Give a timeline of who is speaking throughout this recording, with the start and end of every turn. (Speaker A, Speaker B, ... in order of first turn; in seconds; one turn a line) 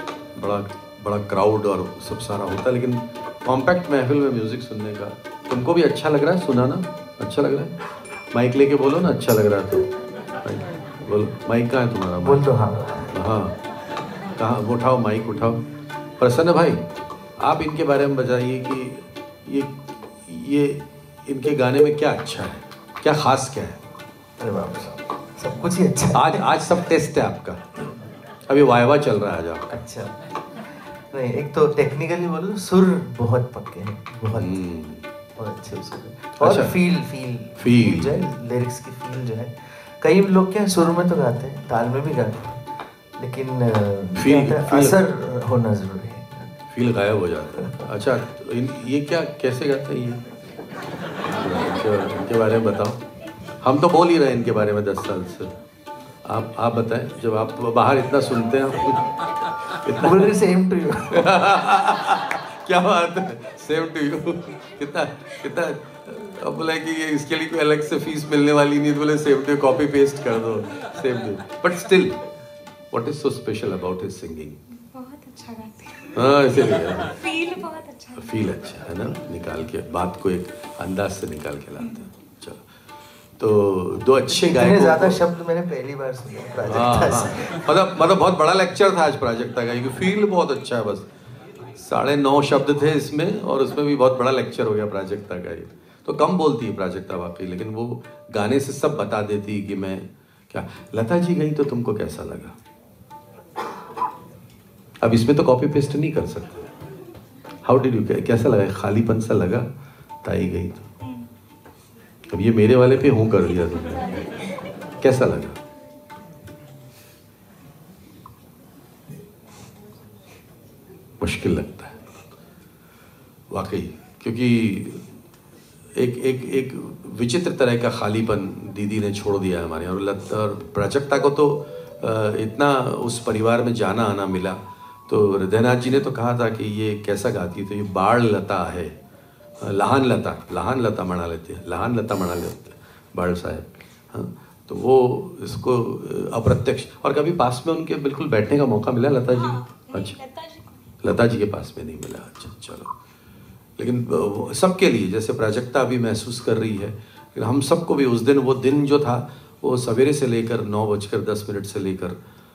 Speaker A: 0.4-7.7
Speaker A: 8.3-9.9
Speaker A: 10.4-12.5
Speaker B: 12.2-13.1
Speaker A: 13.1-13.6
Speaker A: 14.4-15.6
Speaker A: 16.2-16.8
Speaker A: 17.4-23.8
Speaker B: 24.4-26.5
Speaker A: 26.1-27.6
Speaker A: 28.5-29.7
Speaker B: 29.7-30.2
Speaker B: 30.7-34.6
Speaker A: 34.4-35.1
Speaker B: 35.4-42.7
Speaker A: 36.4-36.8
Speaker A: 37.6-38.2
Speaker B: 43.2-46.6
Speaker A: 44.2-45.0
Speaker A: 46.7-50.2
Speaker B: 47.6-47.9
Speaker A: 51.3-53.0
Speaker A: 53.6-55.5
Speaker A: 56.2-59.1
Speaker A: 59.6-60.3
Speaker B: 59.9-61.5
Speaker A: 61.1-72.2
Speaker A: 72.9-74.6
Speaker C: 74.7-76.3
Speaker A: 76.1-77.2
Speaker C: 76.8-78.4
Speaker A: 78.2-82.6
Speaker A: 83.4-85.2
Speaker B: 84.3-87.6
Speaker A: 86.7-91.1
Speaker A: 91.8-102.5
Speaker A: 105.0-106.7
Speaker A: 107.7-109.7
Speaker A: 110.2-110.9
Speaker A: 112.3-114.2
Speaker A: 115.0-115.6
Speaker A: 121.2-122.0
Speaker A: 123.5-125.0
Speaker A: 126.0-138.9
Speaker A: 139.6-150.2
Speaker C: 149.3-150.7
Speaker A: 151.0-152.9
Speaker A: 153.8-162.2